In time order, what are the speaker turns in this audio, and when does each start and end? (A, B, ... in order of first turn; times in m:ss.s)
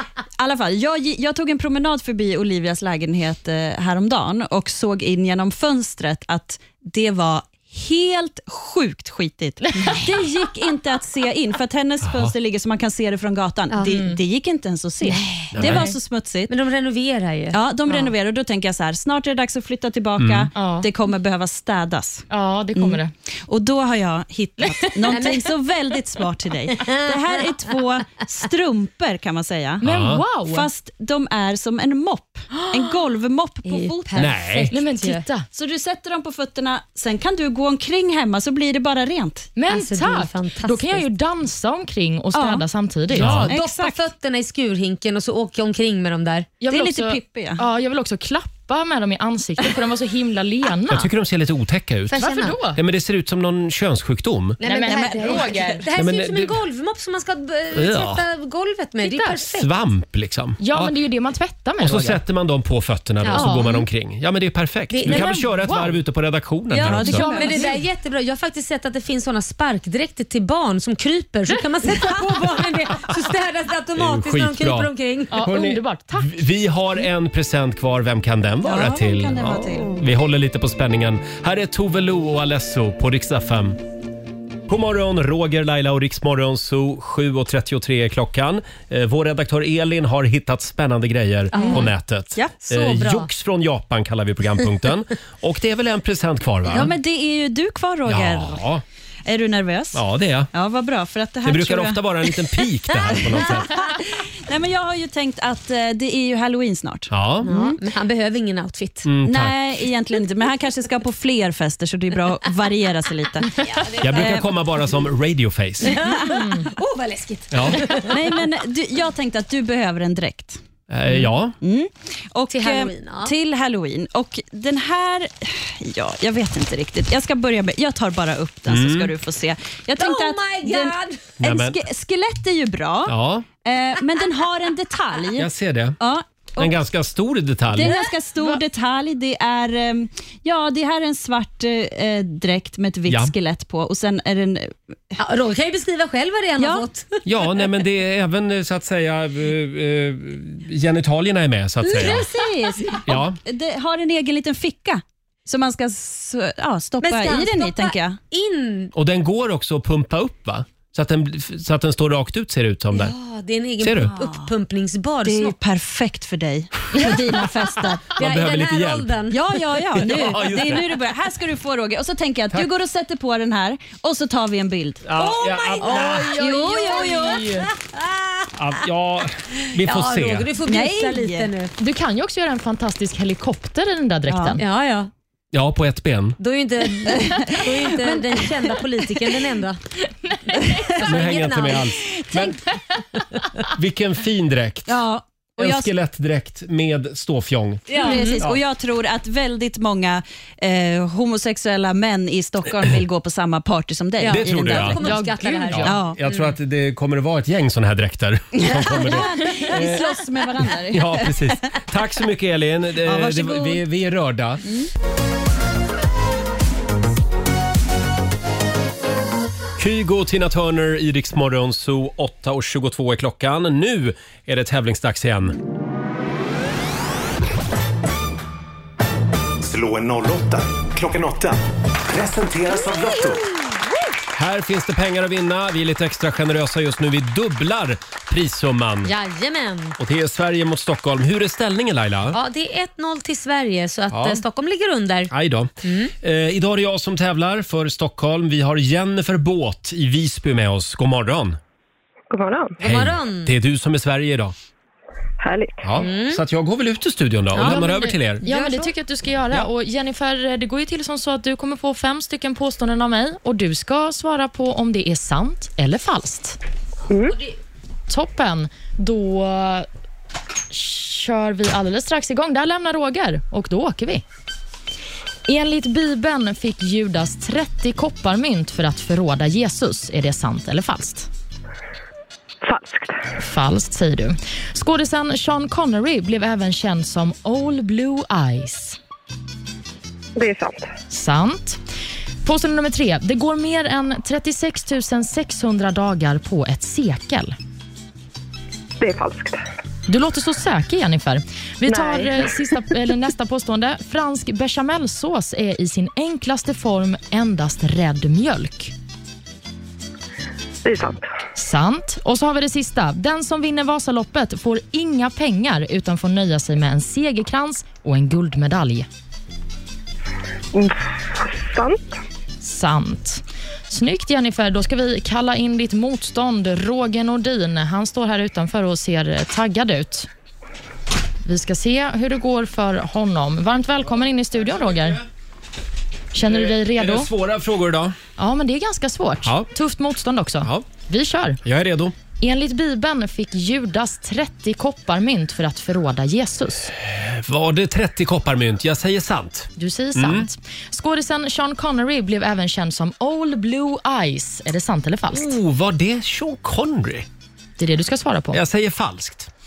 0:00.4-0:16.5 A
0:12.0-0:12.3 B
0:13.8-0:14.2 C
0:15.0-0:15.9 D
0:15.5-0:15.9 B
0:16.5-0:17.6 D
0:17.5-0:29.8 A
0:20.2-0:20.5 B
0:20.5-0:20.9 C
0:22.3-0:23.1 C
0:25.1-0:25.5 D
0:26.7-0:27.6 D
0:29.8-0:30.2 B
0:29.8-0:30.7 C
0:30.4-0:34.4 A
0:33.6-0:35.2 D
0:34.2-0:34.7 B
0:34.7-0:35.4 C
0:35.5-0:39.5 A
0:39.6-0:43.5 C
0:39.7-0:41.0 D
0:42.3-0:42.6 A
0:43.2-0:43.5 B
0:43.2-0:44.0 A
0:43.5-0:46.6 D
0:46.6-0:51.1 C
0:46.7-0:47.6 A
0:50.9-0:54.6 B
0:52.1-0:52.5 D
0:52.1-0:52.8 C
0:54.6-0:59.7 D
0:54.6-0:55.8 C
0:55.9-0:56.6 B
0:57.7-0:58.2 B
0:59.0-0:59.3 C
0:59.4-1:00.9 B
1:00.6-1:02.2 C
1:01.8-1:07.2 B
1:03.2-1:03.8 D
1:03.3-1:03.7 C
1:04.9-1:05.4 D
1:05.1-1:06.0 C
1:06.7-1:15.5 D
1:06.8-1:07.7 A
1:07.0-1:07.8 C
1:14.0-1:14.9 B
1:15.3-1:16.4 C
1:15.4-1:23.8 B
1:18.6-1:20.0 A
1:24.7-1:36.9 B
1:31.5-1:31.9 D
1:31.5-1:32.6 A
1:32.6-1:33.3 D
1:36.7-1:38.6 A
1:38.0-1:38.8 B
1:39.2-1:47.8 A
1:39.9-1:40.5 B
1:41.4-1:43.7 B
1:47.1-1:47.5 B
1:47.4-1:49.1 D
1:49.0-1:49.5 B
1:49.2-1:54.4 A
1:53.5-1:54.6 D
1:54.0-1:56.0 B
1:55.8-1:58.4 D
1:56.0-1:56.5 A
1:56.4-1:56.6 C
1:57.5-1:57.8 B
1:57.9-2:00.6 A
2:00.9-2:01.6 B
2:01.6-2:16.8 A
2:02.5-2:03.3 D
2:08.7-2:09.1 B
2:10.0-2:11.3 D
2:11.4-2:11.8 B
2:13.0-2:13.4 B
2:15.4-2:16.0 B
2:16.6-2:17.9 B
2:17.7-2:24.7 A
2:17.8-2:18.1 D
2:23.1-2:23.3 B
2:25.2-2:27.2 D
2:26.6-2:26.9 A
2:27.2-2:32.3 B
2:31.8-2:33.0 D
2:31.9-2:38.2 A
2:33.1-2:33.4 B
2:37.0-2:38.9 D
2:38.9-2:43.1 B
2:42.9-2:45.6 D
2:43.8-2:44.1 B
2:44.0-2:44.5 A
2:45.2-2:48.2 A
2:48.1-2:50.4 D
2:48.2-2:49.1 B
2:49.3-2:55.1 A
2:50.0-2:50.8 B
2:55.0-2:56.3 B
2:55.2-2:58.5 D
2:55.8-2:57.6 A
2:55.9-2:57.7 C
2:58.6-3:00.5 B
2:59.6-3:01.7 D
3:00.6-3:01.5 A
3:01.8-3:04.6 C
3:04.3-3:04.6 A
3:04.6-3:05.1 D
3:05.5-3:06.4 B
3:06.4-3:09.8 D
3:07.0-3:08.6 A
3:10.3-3:10.9 C
3:11.0-3:12.0 D
3:11.0-3:12.6 B
3:13.7-3:14.9 B
3:14.9-3:15.9 A
3:15.6-3:17.9 B
3:17.9-3:18.4 D
3:17.9-3:25.2 A
3:18.0-3:18.4 C
3:24.2-3:26.5 D
3:24.3-3:25.0 B
3:25.0-3:25.9 C
3:25.8-3:30.1 B
3:25.8-3:26.2 A
3:28.6-3:31.6 A
3:30.9-3:34.6 B
3:33.0-3:33.8 A
3:39.8-3:45.6 B
3:49.6-3:51.6 E
3:52.1-3:53.4 E
3:54.3-3:59.1 B
3:59.0-4:00.0 D
4:00.0-4:02.4 B
4:02.3-4:05.3 D
4:04.1-4:04.4 B
4:05.3-4:11.6 B
4:05.8-4:06.1 D
4:12.3-4:12.8 F
4:12.8-4:13.5 D
4:12.8-4:14.5 B
4:15.4-4:15.8 F
4:15.8-4:18.4 B
4:16.0-4:16.4 D
4:17.6-4:17.9 D
4:17.6-4:26.6 C
4:18.4-4:18.9 D
4:27.1-4:27.4 F
4:28.1-4:29.9 C
4:30.7-4:34.2 C
4:35.5-4:41.3 C
4:42.6-4:43.2 F
4:43.4-4:49.0 C
4:50.4-4:50.9 F
4:51.1-4:51.8 C
4:52.4-4:57.5 C
4:59.0-4:59.6 F
5:00.1-5:08.9 C
5:01.9-5:02.8 F
5:10.8-5:11.3 F
5:11.6-5:19.1 C
5:20.7-5:22.2 F
5:22.6-5:30.3 C
5:31.4-5:35.2 C
5:36.3-5:37.3 C
5:36.4-5:38.2 B
5:38.4-5:41.6 C
5:41.6-5:42.1 B
5:42.4-5:46.9 C
5:47.0-5:50.5 B
5:49.8-5:55.6 C
5:55.3-5:57.3 B
5:57.8-5:58.6 C
5:58.5-5:59.5 B